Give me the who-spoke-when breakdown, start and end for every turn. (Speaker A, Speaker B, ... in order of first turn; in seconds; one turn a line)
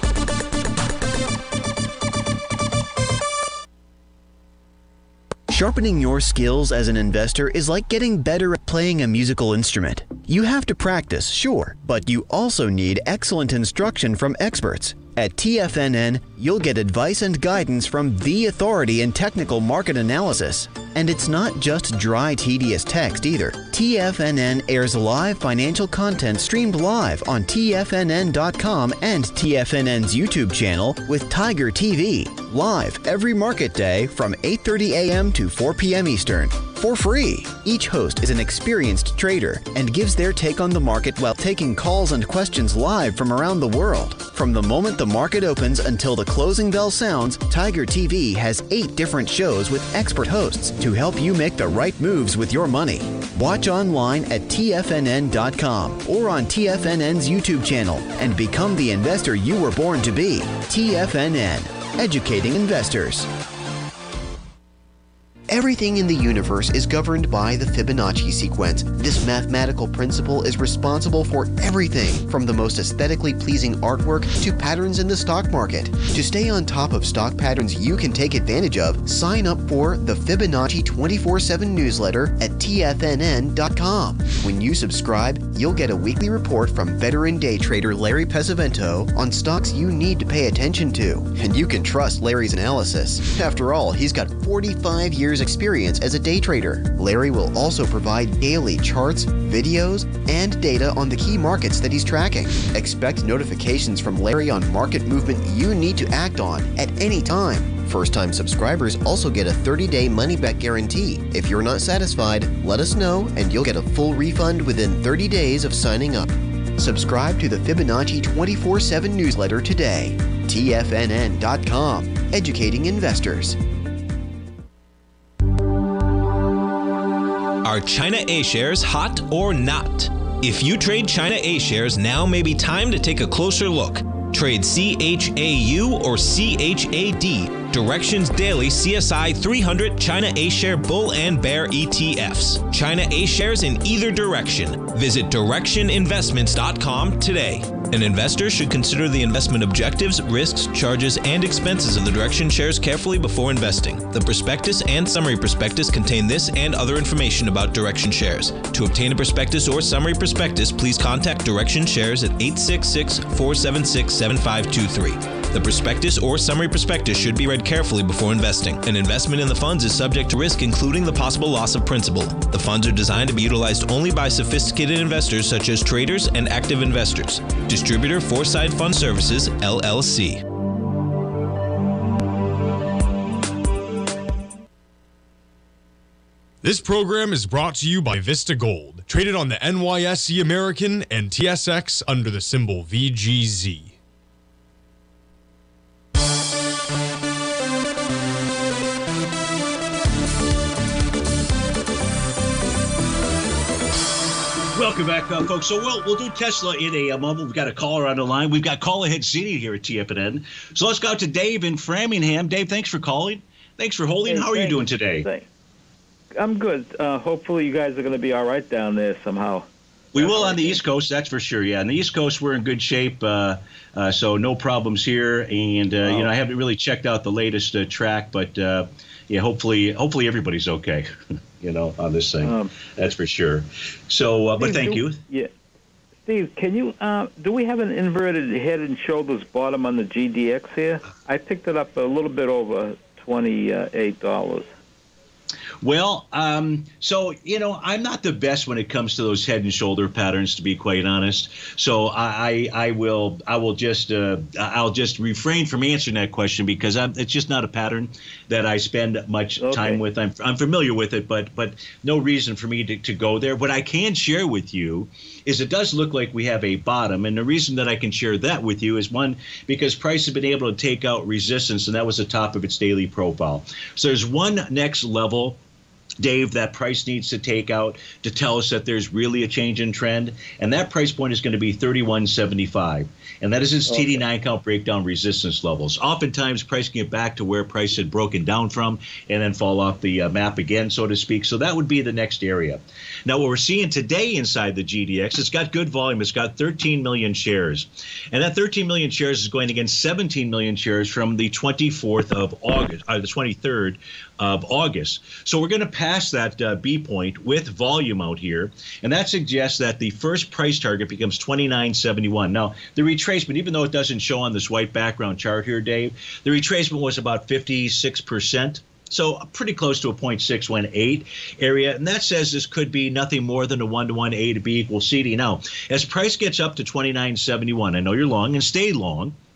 Speaker A: 5.5-63.3
Speaker B: 65.5-123.6
Speaker C: 127.6-180.4
Speaker D: 186.6-193.9
Speaker E: 204.7-215.3
Speaker F: 214.3-215.4
Speaker F: 216.3-220.8
Speaker E: 220.1-231.1
Speaker F: 226.0-226.3
Speaker E: 231.6-235.2
Speaker F: 232.4-232.7
Speaker F: 234.6-235.5
Speaker F: 236.2-244.7
Speaker E: 245.8-275.6
Speaker F: 259.6-260.0
Speaker E: 276.2-329.3
Speaker F: 283.9-284.2